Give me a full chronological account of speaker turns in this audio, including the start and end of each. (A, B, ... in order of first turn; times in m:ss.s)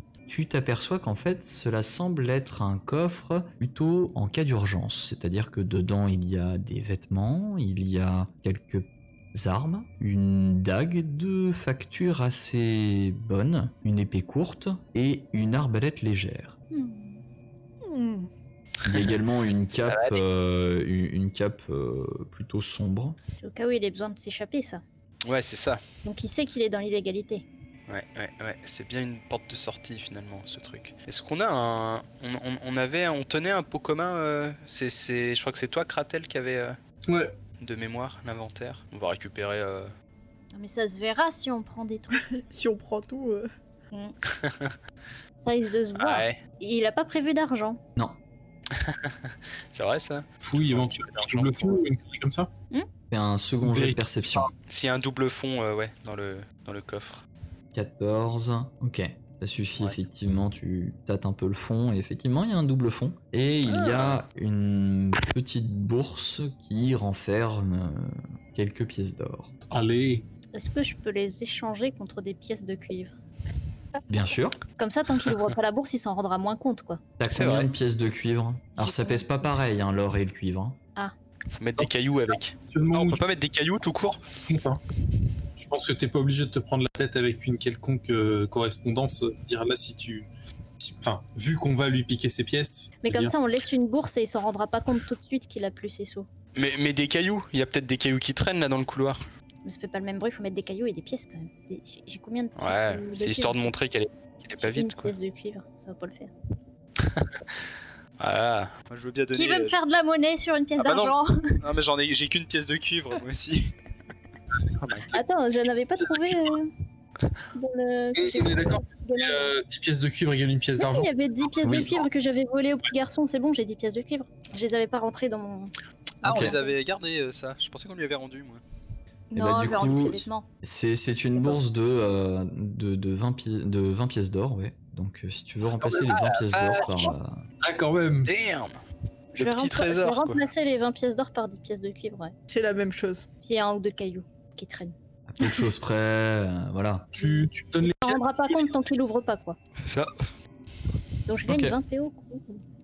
0:00.3-0:16.5 A
0:16.7-0:17.2 B
0:17.8-0:18.3 C
0:18.8-0:23.2 A
0:19.8-0:20.2 D
0:23.4-0:24.8 B
0:25.2-0:25.8 D
0:26.0-0:27.4 B
0:27.9-0:36.8 D
0:37.1-0:37.3 E
0:37.6-0:39.9 D
0:40.5-0:42.2 B
0:42.2-0:43.5 C
0:44.3-0:44.8 D
0:45.4-0:47.8 B
0:46.0-0:46.4 D
0:48.7-0:51.9 D
0:50.4-0:52.5 E
0:53.1-0:54.5 A
0:53.6-0:54.5 E
0:54.7-0:57.2 D
0:57.7-1:09.5 A
1:03.8-1:04.2 D
1:09.7-1:10.3 E
1:10.5-1:13.2 B
1:14.1-1:14.6 A
1:14.8-1:17.0 B
1:17.2-1:20.8 A
1:17.3-1:17.7 D
1:18.8-1:19.2 B
1:21.6-1:24.3 D
1:22.7-1:23.2 E
1:24.3-1:24.8 E
1:25.6-1:30.3 E
1:30.8-1:33.3 E
1:33.0-1:36.3 B
1:36.5-1:39.2 D
1:39.6-1:43.7 B
1:42.6-1:45.1 D
1:44.6-1:46.3 B
1:47.0-1:47.4 D
1:48.2-1:49.8 D
1:49.3-1:51.6 B
1:50.8-1:53.7 D
1:54.8-1:55.1 D
1:54.9-1:55.2 E
1:55.1-1:56.7 B
1:55.8-1:56.5 E
1:57.5-1:59.5 B
1:58.1-2:01.1 E
2:00.8-2:05.7 B
2:01.6-2:02.0 A
2:06.2-2:06.7 B
2:06.2-2:08.6 D
2:06.2-2:06.5 A
2:09.3-2:10.4 B
2:09.4-2:17.4 A
2:15.8-2:16.8 E
2:16.5-2:17.1 D
2:17.6-2:18.3 E
2:18.2-2:18.7 D
2:19.3-2:22.3 B
2:19.4-2:20.4 D
2:22.5-2:23.2 C
2:23.4-2:24.9 B
2:25.3-2:27.1 A
2:27.1-2:28.7 E
2:27.8-2:29.6 B
2:29.9-2:30.1 D
2:31.2-2:32.6 B
2:31.5-2:31.8 A